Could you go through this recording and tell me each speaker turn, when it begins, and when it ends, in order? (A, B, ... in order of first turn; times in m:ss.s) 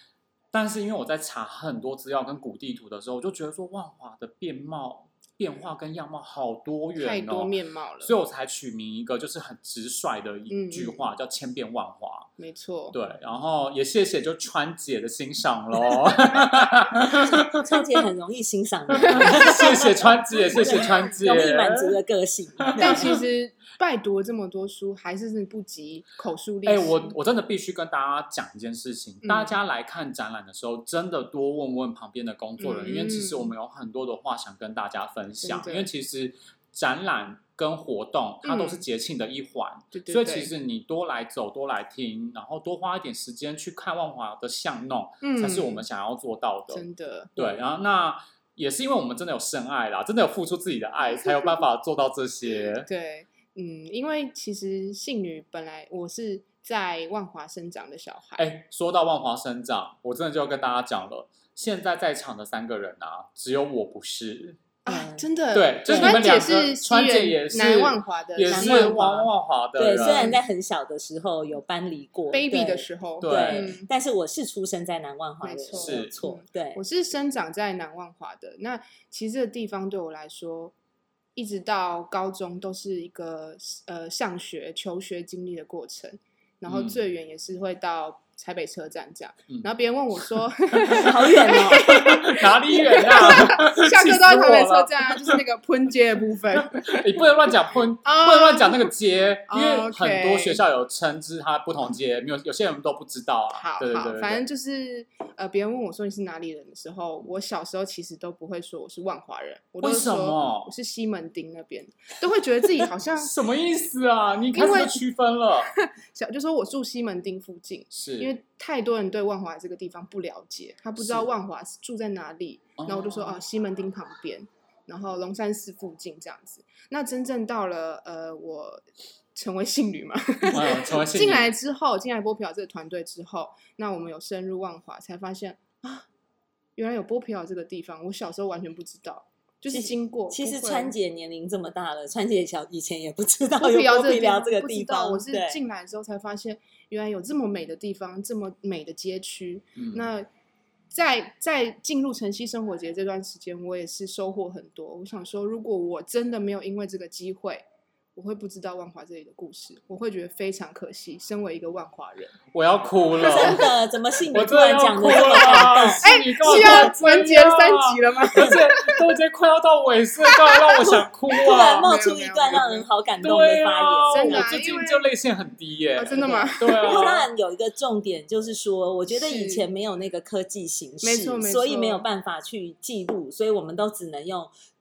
0:00.5-0:12.3 A
0:07.0-0:08.1 B
0:10.5-0:11.1 B
0:12.4-0:13.0 B
0:12.9-0:18.0 A
0:17.2-0:23.1 C
0:18.9-0:22.0 A
0:20.4-0:20.9 B
0:22.6-0:23.2 A
0:22.8-0:27.2 B
0:26.7-0:46.9 A
0:29.2-0:29.6 B
0:32.6-0:33.5 B
0:35.4-0:35.9 B
0:38.4-0:38.8 B
0:39.9-0:40.5 B
0:45.2-0:45.8 B
0:46.7-0:47.6 B
0:47.4-0:52.9 A
0:51.1-0:51.6 B
0:52.9-0:58.4 B
0:58.4-1:04.6 A
1:04.8-1:09.3 B
1:04.9-1:05.3 C
1:05.5-1:10.4 A
1:05.9-1:06.3 C
1:08.5-1:09.0 C
1:09.8-1:16.8 C
1:09.9-1:10.4 B
1:12.3-1:13.9 B
1:13.2-1:13.8 A
1:15.4-1:20.7 B
1:15.7-1:16.1 A
1:21.4-1:37.2 B
1:26.7-1:27.0 A
1:30.9-1:35.4 A
1:30.9-1:31.9 C
1:36.6-1:44.4 A
1:38.0-1:38.9 B
1:39.5-1:40.6 B
1:43.5-1:53.4 B
1:49.8-1:50.7 A
1:52.8-1:55.8 A
1:54.5-1:55.0 B
1:55.7-2:16.1 B
1:57.9-1:58.3 A
2:01.0-2:01.3 A
2:02.8-2:03.4 A
2:10.5-2:11.5 A
2:16.8-2:20.9 B
2:19.7-2:25.6 C
2:23.6-2:30.3 B
2:29.8-2:30.1 A
2:30.9-2:37.6 B
2:38.2-2:42.4 B
2:42.5-2:43.7 A
2:43.2-2:46.9 C
2:44.3-2:51.9 A
2:46.0-2:49.0 B
2:50.8-2:54.6 C
2:51.4-2:52.9 B
2:53.2-2:57.3 A
2:54.1-2:55.1 B
2:56.0-2:57.0 B
2:56.2-3:04.5 C
2:59.1-2:59.6 B
3:01.0-3:02.0 B